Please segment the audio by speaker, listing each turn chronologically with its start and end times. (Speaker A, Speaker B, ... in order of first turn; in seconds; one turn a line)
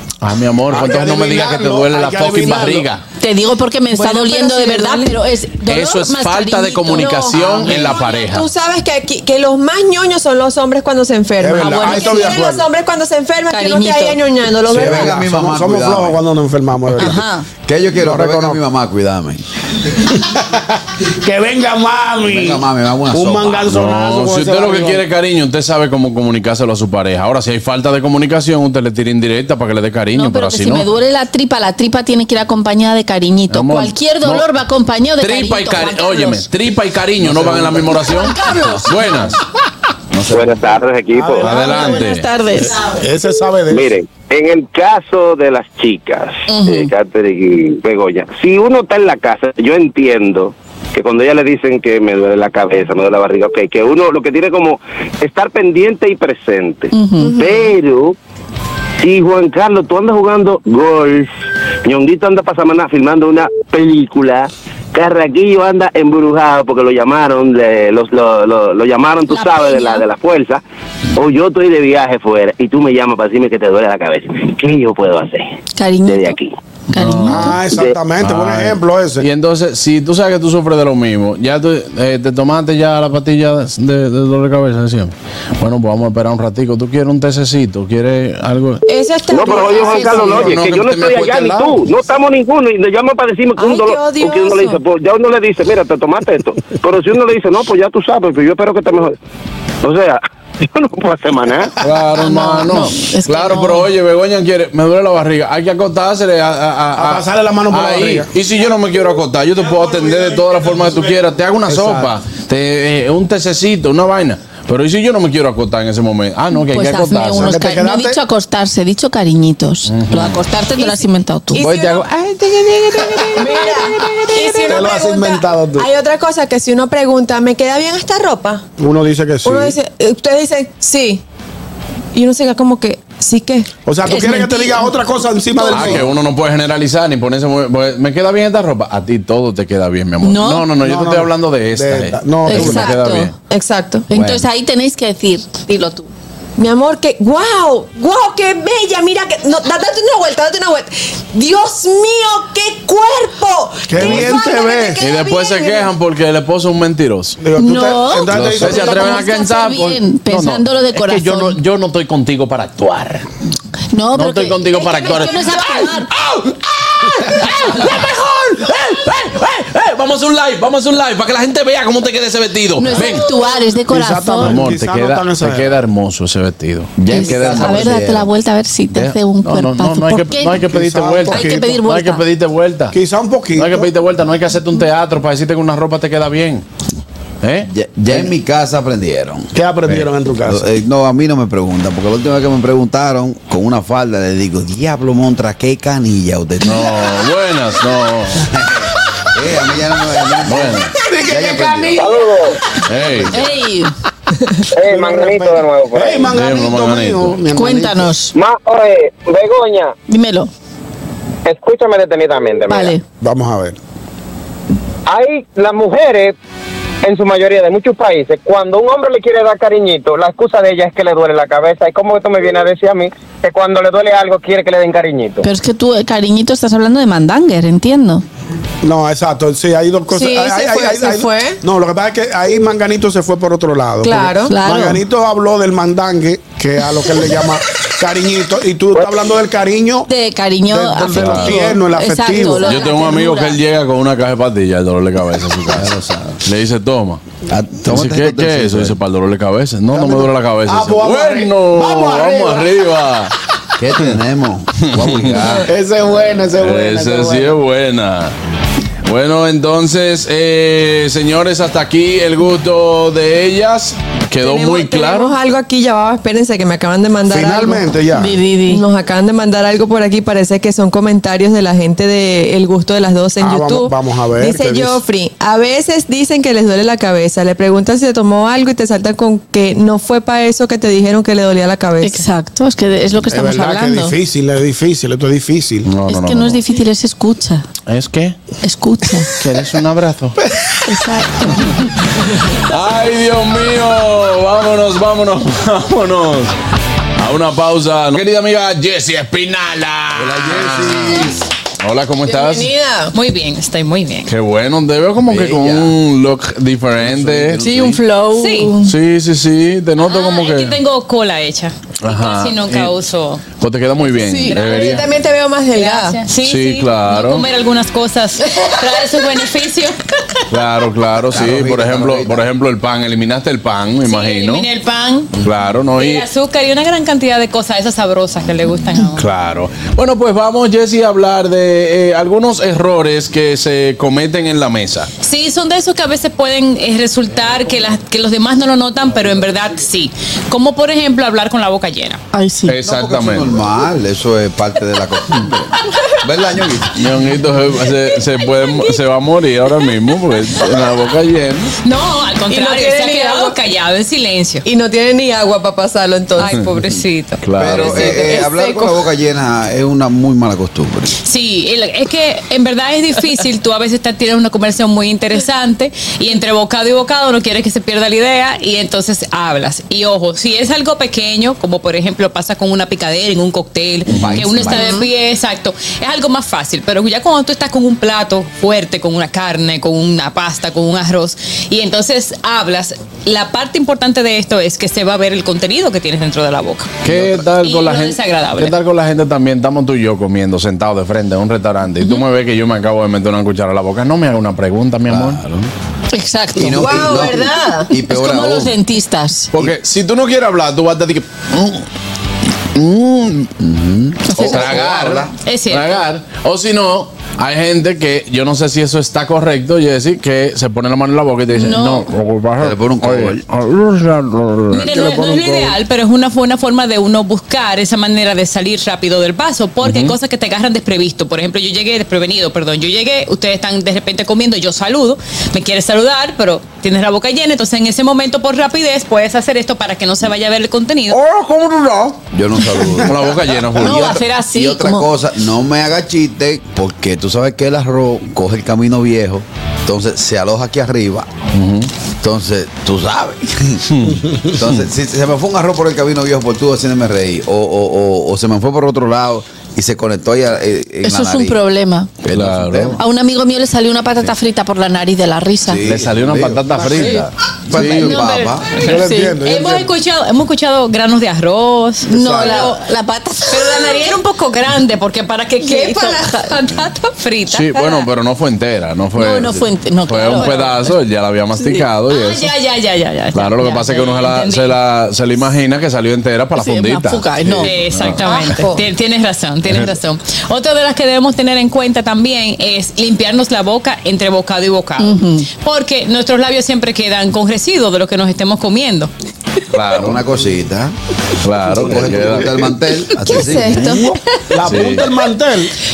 Speaker A: 0.2-3.0
Speaker B: 0.7-2.9
Speaker C: 3.2-8.0
Speaker D: 3.9-5.2
Speaker A: 5.7-8.5
Speaker D: 7.0-15.1
Speaker B: 11.4-12.6
Speaker C: 11.6-12.5
Speaker C: 13.5-14.2
Speaker E: 14.7-16.2
Speaker B: 14.7-17.2
Speaker C: 17.0-17.5
Speaker E: 17.7-19.4
Speaker B: 17.9-18.6
Speaker B: 20.1-20.6
Speaker B: 21.2-25.1
Speaker E: 22.2-23.7
Speaker A: 23.7-30.9
Speaker C: 30.1-36.4
Speaker A: 33.5-34.5
Speaker A: 35.2-39.4
Speaker B: 37.2-38.1
Speaker C: 38.0-38.9
Speaker A: 40.1-40.5
Speaker F: 40.3-41.5
Speaker B: 41.1-43.9
Speaker A: 41.4-42.3
Speaker C: 41.6-42.9
Speaker F: 43.7-58.1
Speaker C: 46.5-46.9
Speaker C: 56.9-57.6
Speaker F: 59.0-61.3
Speaker F: 61.9-70.6
Speaker C: 69.3-70.0
Speaker F: 71.2-75.5
Speaker C: 75.8-76.3
Speaker F: 76.1-76.5
Speaker C: 76.9-77.6
Speaker A: 77.0-77.6
Speaker B: 77.3-79.2
Speaker A: 78.2-88.8
Speaker D: 88.9-90.5
Speaker F: 89.3-99.2
Speaker B: 89.7-90.6
Speaker A: 90.1-91.8
Speaker D: 93.6-94.8
Speaker F: 99.8-101.7
Speaker A: 101.8-117.6
Speaker C: 102.2-103.9
Speaker B: 107.0-108.3
Speaker B: 109.6-112.1
Speaker C: 116.5-121.7
Speaker B: 117.3-118.2
Speaker A: 119.9-120.4
Speaker D: 121.5-122.1
Speaker A: 121.6-122.0
Speaker C: 122.7-124.6
Speaker D: 123.3-128.7
Speaker B: 124.7-125.9
Speaker B: 128.8-129.8
Speaker D: 129.4-131.2
Speaker D: 132.1-133.7
Speaker B: 133.9-136.1
Speaker C: 134.1-134.9
Speaker D: 135.6-136.0
Speaker A: 135.7-143.3
Speaker C: 140.2-140.7
Speaker B: 140.8-142.9
Speaker C: 142.5-143.3
Speaker D: 143.5-144.1
Speaker C: 144.1-146.1
Speaker E: 144.1-144.4
Speaker D: 146.6-155.9
Speaker B: 153.9-155.0
Speaker A: 155.0-157.4
Speaker B: 157.4-159.2
Speaker C: 157.6-161.6
Speaker E: 158.3-158.8
Speaker A: 158.4-163.2
Speaker C: 163.9-166.1
Speaker A: 164.1-173.3
Speaker C: 172.8-174.7
Speaker B: 173.9-175.8
Speaker A: 174.4-178.1
Speaker E: 177.0-178.3
Speaker C: 177.1-180.7
Speaker A: 178.9-182.9
Speaker B: 180.7-181.8
Speaker C: 181.3-182.2
Speaker B: 182.9-183.9
Speaker A: 183.6-186.7
Speaker A: 187.4-187.7
Speaker E: 187.7-189.5
Speaker B: 189.5-190.7
Speaker E: 190.5-197.1
Speaker A: 196.6-198.5
Speaker E: 198.4-202.1
Speaker A: 200.5-200.9
Speaker B: 201.0-202.2
Speaker G: 202.0-202.4
Speaker A: 202.8-203.4
Speaker C: 203.3-203.9
Speaker G: 204.8-206.3
Speaker B: 204.8-208.2
Speaker A: 206.3-207.4
Speaker C: 207.5-208.3
Speaker G: 208.3-209.9
Speaker C: 210.1-210.5
Speaker G: 211.5-212.9
Speaker C: 212.7-213.0
Speaker B: 213.2-213.8
Speaker G: 215.1-216.3
Speaker G: 217.1-225.4
Speaker C: 225.4-228.2
Speaker B: 228.8-240.1
Speaker D: 230.1-231.6
Speaker D: 234.0-234.5
Speaker C: 234.5-235.0
Speaker C: 240.1-243.6
Speaker B: 240.7-242.8
Speaker A: 241.1-241.6
Speaker A: 242.6-247.2
Speaker E: 245.8-246.4
Speaker E: 247.5-249.0
Speaker A: 247.9-253.3
Speaker B: 249.9-252.8
Speaker E: 253.8-255.7
Speaker A: 254.8-255.6
Speaker B: 255.7-257.6
Speaker A: 256.6-258.3
Speaker A: 259.1-265.4
Speaker D: 264.4-267.9
Speaker B: 267.3-268.4
Speaker C: 268.1-268.8
Speaker D: 268.7-282.2
Speaker B: 273.4-275.0
Speaker C: 282.0-284.1
Speaker B: 283.3-285.9
Speaker A: 285.9-286.6
Speaker C: 286.1-287.7
Speaker A: 287.9-288.4
Speaker C: 288.6-289.4
Speaker A: 289.3-290.4
Speaker C: 290.9-291.8
Speaker A: 292.7-296.5
Speaker A: 297.2-302.7
Speaker E: 300.2-301.4
Speaker D: 302.3-303.1
Speaker H: 303.1-304.3
Speaker A: 304.3-307.7
Speaker E: 305.3-306.0
Speaker E: 307.0-308.0
Speaker C: 307.6-308.9
Speaker H: 308.3-308.8
Speaker A: 308.8-310.8
Speaker H: 310.0-313.4
Speaker A: 312.0-315.1
Speaker D: 314.2-316.2
Speaker H: 314.5-315.0
Speaker H: 315.8-320.0
Speaker A: 316.4-317.5
Speaker A: 320.5-324.7
Speaker E: 321.3-322.4
Speaker H: 324.1-325.3
Speaker A: 325.4-326.3
Speaker H: 326.0-329.2
Speaker A: 329.1-335.1
Speaker H: 335.2-342.2
Speaker C: 342.3-342.8
Speaker A: 342.7-343.5
Speaker E: 342.8-347.1
Speaker A: 347.0-351.7
Speaker H: 351.8-354.6
Speaker D: 352.5-353.6
Speaker D: 354.6-357.0
Speaker H: 356.6-358.4
Speaker A: 357.4-358.3
Speaker E: 357.6-361.1
Speaker D: 357.8-358.9
Speaker H: 361.2-387.0
Speaker A: 374.1-374.7
Speaker E: 374.1-374.9
Speaker A: 387.0-395.4
Speaker E: 387.1-387.5
Speaker H: 387.6-388.8
Speaker E: 395.1-395.7
Speaker C: 396.1-399.5
Speaker E: 396.6-398.8
Speaker D: 396.8-397.9
Speaker A: 399.5-401.8
Speaker A: 402.8-403.5
Speaker E: 403.6-405.3
Speaker C: 404.3-404.8
Speaker A: 404.4-414.9
Speaker H: 405.4-406.0
Speaker C: 411.5-412.1
Speaker E: 412.6-413.4
Speaker H: 414.7-431.2
Speaker B: 414.8-415.8
Speaker A: 419.8-420.1
Speaker A: 431.1-432.2
Speaker E: 432.3-441.3
Speaker A: 433.0-434.1
Speaker C: 433.8-435.1
Speaker H: 434.2-434.5
Speaker A: 441.5-441.9
Speaker E: 442.2-451.6
Speaker A: 443.9-444.8
Speaker C: 451.0-452.2
Speaker E: 452.2-453.0
Speaker A: 452.3-453.0
Speaker C: 452.9-455.9
Speaker E: 455.7-457.2
Speaker A: 455.8-458.3
Speaker C: 456.8-457.2
Speaker E: 457.7-458.8
Speaker H: 457.8-462.8
Speaker B: 458.8-459.9
Speaker C: 458.9-459.4
Speaker C: 462.1-464.0
Speaker B: 462.2-462.7
Speaker H: 463.5-468.1
Speaker D: 465.6-466.6
Speaker C: 465.8-466.2
Speaker A: 467.5-472.5
Speaker C: 469.1-471.0
Speaker C: 471.6-471.9
Speaker H: 472.1-474.8
Speaker A: 473.3-478.5
Speaker C: 476.6-477.9
Speaker H: 477.6-489.1
Speaker D: 478.2-478.8
Speaker C: 485.0-485.5
Speaker A: 489.7-490.2
Speaker E: 489.9-490.9
Speaker A: 491.4-492.6
Speaker E: 491.8-494.1
Speaker D: 493.2-494.1
Speaker B: 494.1-495.7
Speaker A: 494.6-495.1